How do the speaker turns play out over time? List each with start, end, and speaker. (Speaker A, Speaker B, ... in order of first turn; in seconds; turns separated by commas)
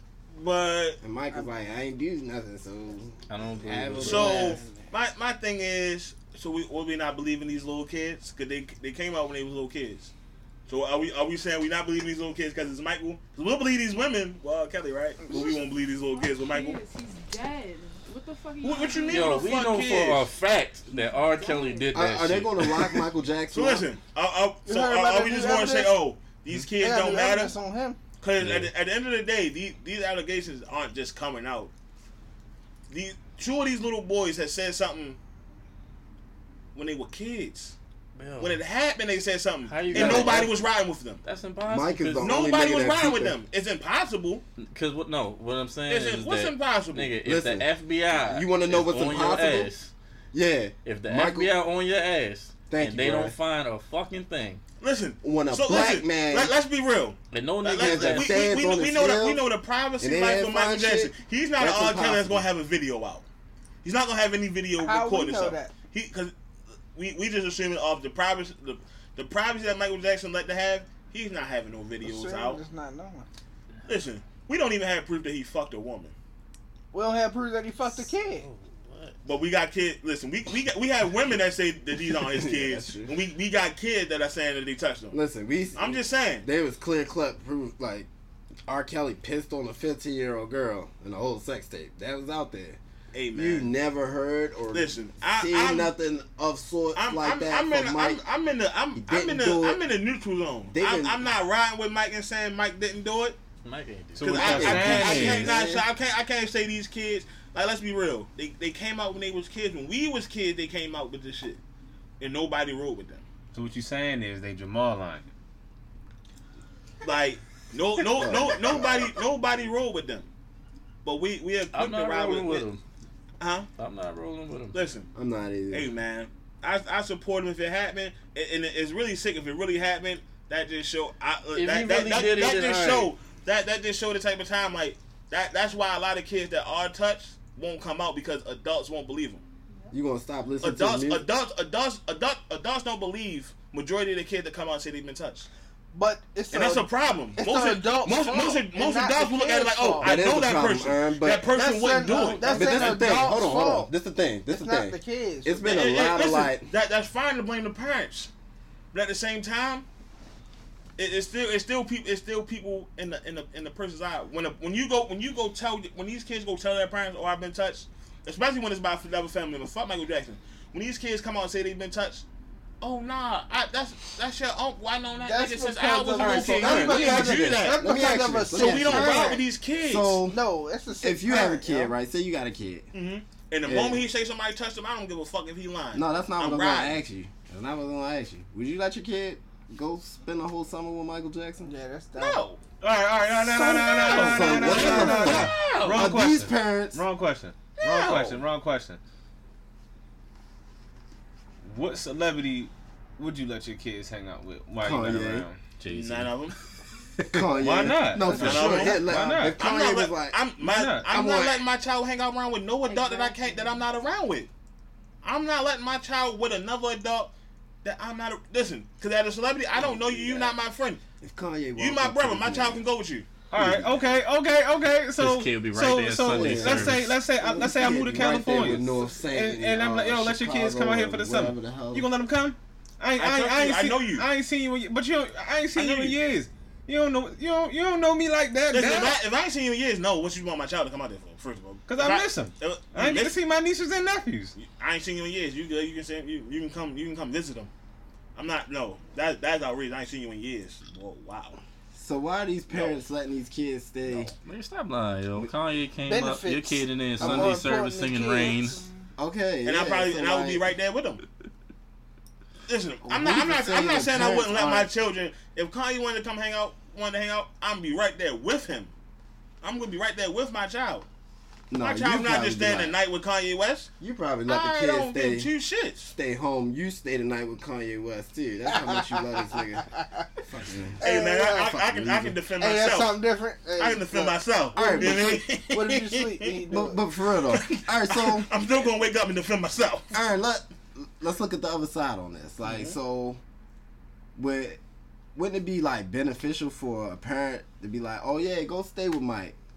Speaker A: 0.3-1.0, Speaker B: 1.0-4.6, Speaker C: 3.3-4.6, Speaker A: 4.0-10.1, Speaker D: 4.3-4.8, Speaker A: 10.7-16.8, Speaker E: 15.3-19.6, Speaker A: 18.6-20.3, Speaker C: 19.1-23.1, Speaker E: 20.9-21.9, Speaker B: 21.9-23.9, Speaker A: 23.5-27.5, Speaker D: 24.6-25.9, Speaker D: 26.8-28.0, Speaker A: 28.2-31.7, Speaker C: 28.4-28.7, Speaker A: 32.9-35.2, Speaker A: 36.7-37.8, Speaker C: 38.1-38.6, Speaker A: 38.4-41.2, Speaker C: 39.7-40.5, Speaker B: 39.9-40.5, Speaker C: 41.2-42.5, Speaker B: 41.6-43.4, Speaker A: 42.2-44.4, Speaker C: 44.6-49.9, Speaker A: 45.9-47.1, Speaker B: 47.2-49.7, Speaker B: 50.3-51.6, Speaker C: 50.8-54.6, Speaker B: 52.7-53.4, Speaker A: 54.8-63.2, Speaker B: 55.2-56.5, Speaker C: 57.3-58.5, Speaker B: 57.8-59.4, Speaker B: 60.0-62.5, Speaker A: 63.8-66.3, Speaker D: 64.8-65.7, Speaker A: 66.9-72.6, Speaker D: 72.0-73.2, Speaker A: 73.8-76.1, Speaker D: 76.9-78.5, Speaker C: 77.8-79.2, Speaker A: 79.2-85.2, Speaker B: 82.2-83.2, Speaker B: 85.1-88.1, Speaker A: 85.7-86.5, Speaker B: 88.7-92.8, Speaker A: 93.1-93.7, Speaker B: 93.3-98.2, Speaker A: 94.7-95.9, Speaker A: 96.9-103.4, Speaker B: 99.0-99.8, Speaker B: 100.7-101.3, Speaker C: 103.6-105.3, Speaker F: 104.2-105.5, Speaker A: 104.2-111.6, Speaker B: 104.4-105.9, Speaker A: 112.2-113.2, Speaker F: 113.5-115.3, Speaker A: 117.0-120.3, Speaker B: 118.1-119.2, Speaker A: 121.0-122.7, Speaker C: 121.7-122.8, Speaker A: 123.4-123.7, Speaker C: 123.8-124.8, Speaker A: 124.7-125.1, Speaker B: 125.1-125.9, Speaker A: 125.7-139.4, Speaker C: 131.5-133.1, Speaker B: 139.9-141.3, Speaker A: 140.6-145.5, Speaker D: 145.9-150.2, Speaker A: 146.5-153.5, Speaker B: 150.0-151.5, Speaker D: 151.5-153.9, Speaker C: 152.0-152.7, Speaker B: 152.4-156.7, Speaker D: 154.5-155.6, Speaker A: 155.6-158.3, Speaker A: 158.9-159.8, Speaker A: 161.0-172.2, Speaker A: 172.8-180.2, Speaker D: 175.2-179.4, Speaker C: 176.2-176.6, Speaker B: 176.2-180.4, Speaker D: 180.3-181.9, Speaker B: 181.0-182.9, Speaker A: 182.9-187.0, Speaker B: 183.6-184.1, Speaker B: 185.9-191.7, Speaker D: 191.6-192.4, Speaker A: 192.2-192.6, Speaker F: 192.8-199.0, Speaker B: 193.3-197.0, Speaker A: 193.6-196.2, Speaker A: 197.8-198.4, Speaker F: 201.6-205.6, Speaker B: 204.8-205.5, Speaker C: 205.8-206.6, Speaker A: 205.9-206.5, Speaker B: 207.3-210.4, Speaker F: 207.5-209.6, Speaker A: 208.3-214.5, Speaker F: 210.6-211.1, Speaker B: 211.1-211.7, Speaker E: 212.8-213.8, Speaker A: 215.2-217.3, Speaker A: 217.8-221.0, Speaker B: 219.7-220.6, Speaker B: 221.2-222.8, Speaker A: 221.8-223.3, Speaker F: 223.5-239.2, Speaker B: 223.5-224.1, Speaker C: 225.2-227.2, Speaker B: 226.2-232.1, Speaker A: 233.2-234.3, Speaker A: 235.7-236.2, Speaker A: 238.7-243.3, Speaker F: 241.9-244.5, Speaker A: 244.6-247.7, Speaker A: 248.3-251.6, Speaker B: 251.9-254.3, Speaker A: 252.7-253.0, Speaker C: 254.4-258.8, Speaker D: 256.1-258.7, Speaker B: 257.2-257.9, Speaker E: 258.4-259.1, Speaker B: 259.2-260.6, Speaker A: 259.6-261.2, Speaker A: 262.7-268.9, Speaker B: 263.0-264.9, Speaker A: 269.6-271.1, Speaker B: 271.7-272.9, Speaker A: 271.8-273.9, Speaker B: 274.0-275.5, Speaker A: 274.5-276.1, Speaker B: 276.1-279.9, Speaker D: 278.8-280.2, Speaker B: 280.4-282.4, Speaker D: 281.0-281.8, Speaker A: 281.0-283.2, Speaker D: 282.6-287.0, Speaker A: 283.8-286.6, Speaker B: 284.7-285.4, Speaker B: 286.7-288.5, Speaker A: 287.5-290.1, Speaker B: 290.1-293.4, Speaker A: 292.6-292.9, Speaker B: 294.4-294.8, Speaker B: 295.3-299.6